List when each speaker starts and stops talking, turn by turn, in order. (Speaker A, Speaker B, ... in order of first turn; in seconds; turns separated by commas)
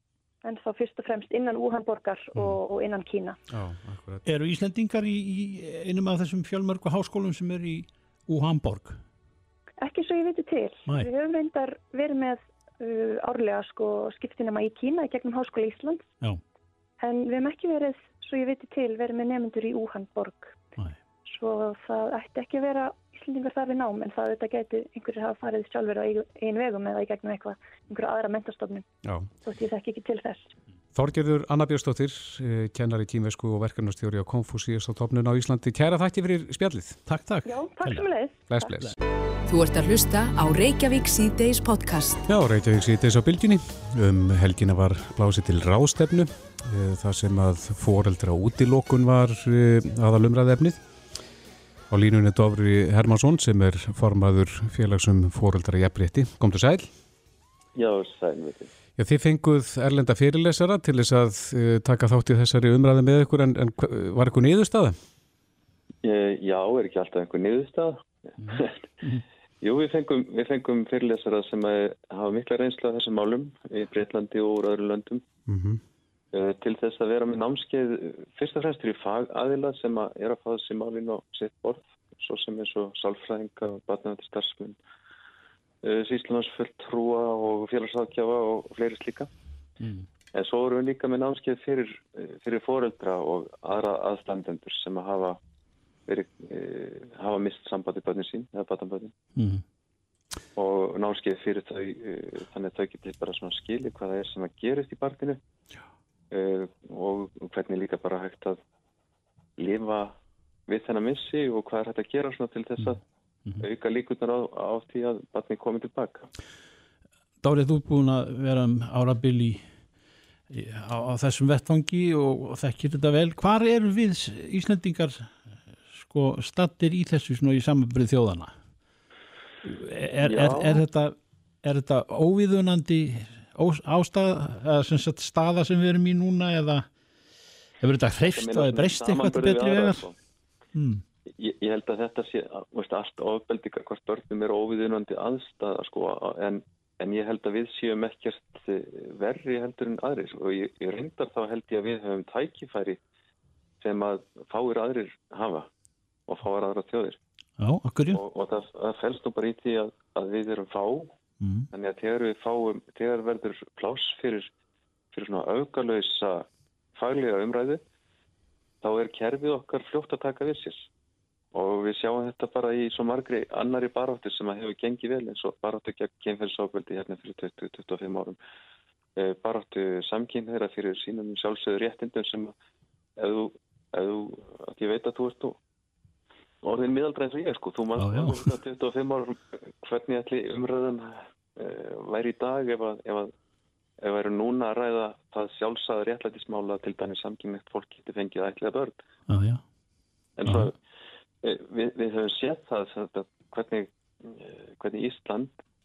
Speaker A: 0.4-3.4, Speaker B: 3.5-4.2, Speaker C: 4.2-9.0, Speaker A: 9.8-16.1, Speaker A: 17.0-20.6, Speaker A: 21.3-28.9, Speaker B: 29.0-29.3, Speaker A: 29.4-30.5, Speaker B: 30.9-37.0, Speaker C: 37.1-38.0, Speaker A: 37.5-38.6, Speaker B: 38.5-38.9, Speaker D: 39.5-42.2, Speaker B: 42.3-50.8, Speaker B: 51.9-56.9, Speaker E: 57.8-58.7, Speaker B: 59.0-65.0, Speaker E: 66.0-68.8, Speaker C: 68.4-69.2, Speaker E: 69.6-75.2, Speaker B: 75.5-75.8, Speaker E: 76.3-84.8, Speaker E: 85.8-89.3, Speaker C: 89.8-90.1, Speaker E: 90.3-95.4, Speaker E: 96.1-99.1, Speaker C: 99.4-99.6, Speaker E: 100.6-105.4, Speaker E: 106.3-108.6, Speaker E: 109.6-110.2, Speaker E: 110.7-113.0, Speaker E: 113.6-116.3, Speaker C: 117.4-119.7, Speaker C: 120.5-125.3, Speaker C: 126.0-128.5, Speaker C: 129.6-136.9, Speaker E: 130.2-130.8, Speaker C: 137.8-140.0, Speaker E: 138.3-140.2, Speaker C: 140.8-141.0, Speaker E: 141.4-153.0, Speaker E: 153.8-155.7, Speaker E: 156.3-157.2, Speaker C: 157.6-158.2, Speaker E: 158.1-161.1, Speaker C: 161.4-161.7, Speaker E: 161.7-164.5, Speaker E: 165.1-167.8, Speaker E: 168.8-170.9, Speaker E: 171.5-178.4, Speaker E: 179.2-182.5, Speaker E: 183.2-185.6, Speaker E: 186.6-193.3, Speaker C: 188.0-188.5, Speaker E: 194.0-198.9, Speaker C: 199.3-199.6, Speaker E: 200.4-200.8, Speaker E: 201.4-205.5